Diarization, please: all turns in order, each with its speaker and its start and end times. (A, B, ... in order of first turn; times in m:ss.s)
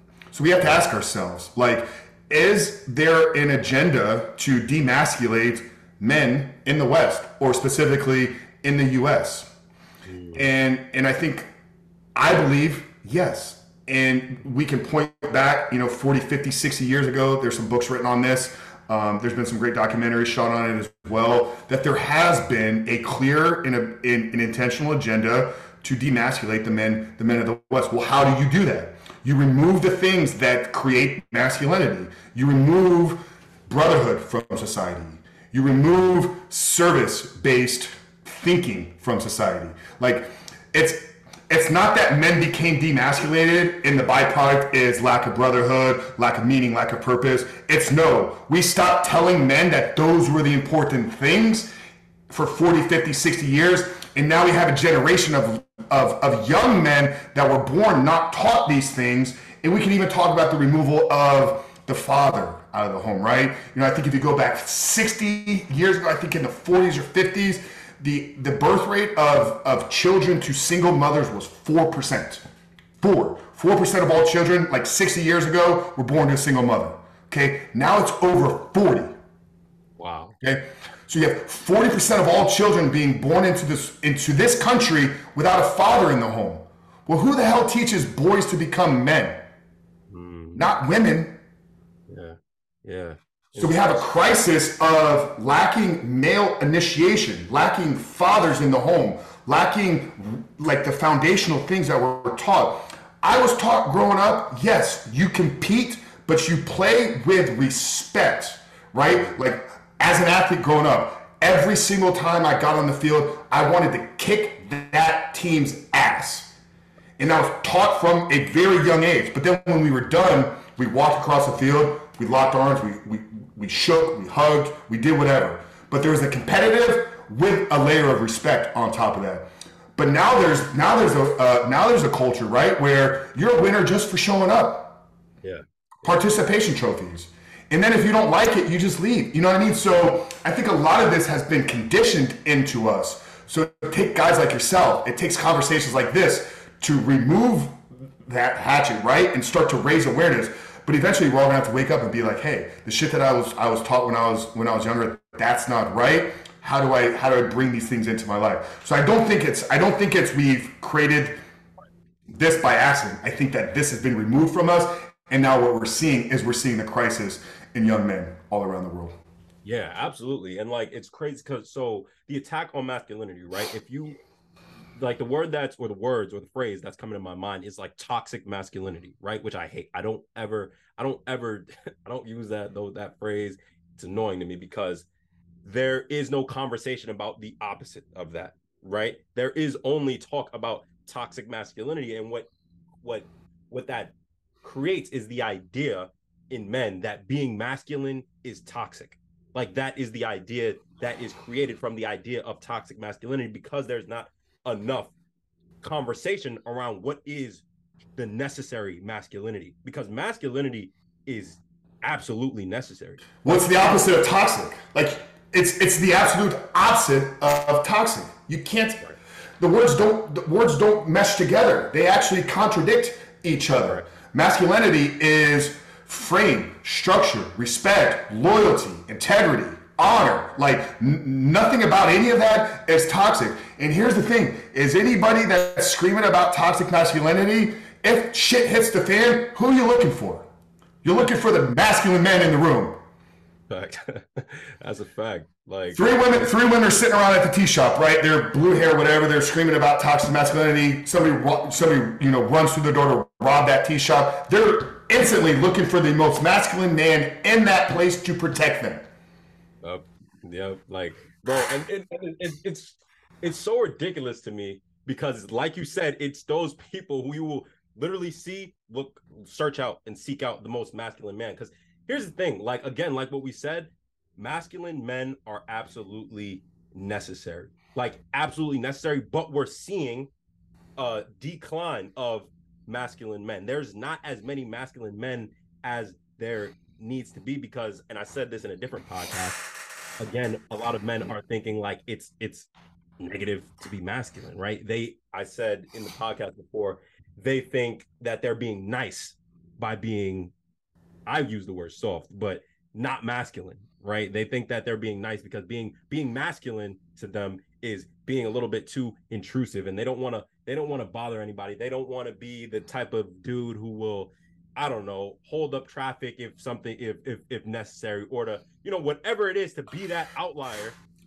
0:00.3-0:09.5 A
0:10.0-0:10.4 B
0:10.3-0:11.5 A
0:12.2-0:51.7 A
0:52.3-1:12.4 A
1:13.0-1:19.1 A
1:20.0-1:20.4 B
1:20.4-1:29.4 A
1:30.1-1:30.6 B
1:30.5-1:31.4 A
1:32.1-1:33.9 B
1:33.6-1:56.5 A
1:57.2-2:15.0 A
2:16.0-2:41.4 A
2:42.3-2:49.2 A
2:49.6-2:54.2 B
2:55.0-3:05.1 B
3:05.6-3:12.5 B
3:13.0-3:25.1 B
3:25.8-3:27.6 B
3:28.2-3:34.0 B
3:33.4-3:39.0 A
3:39.6-4:00.5 A
4:01.0-4:03.0 A
4:03.7-4:06.2 B
4:05.9-4:19.1 A
4:19.8-4:40.3 B
4:41.0-4:49.6 B
4:50.2-4:52.7 B
4:53.2-5:00.5 B
5:01.3-5:21.0 B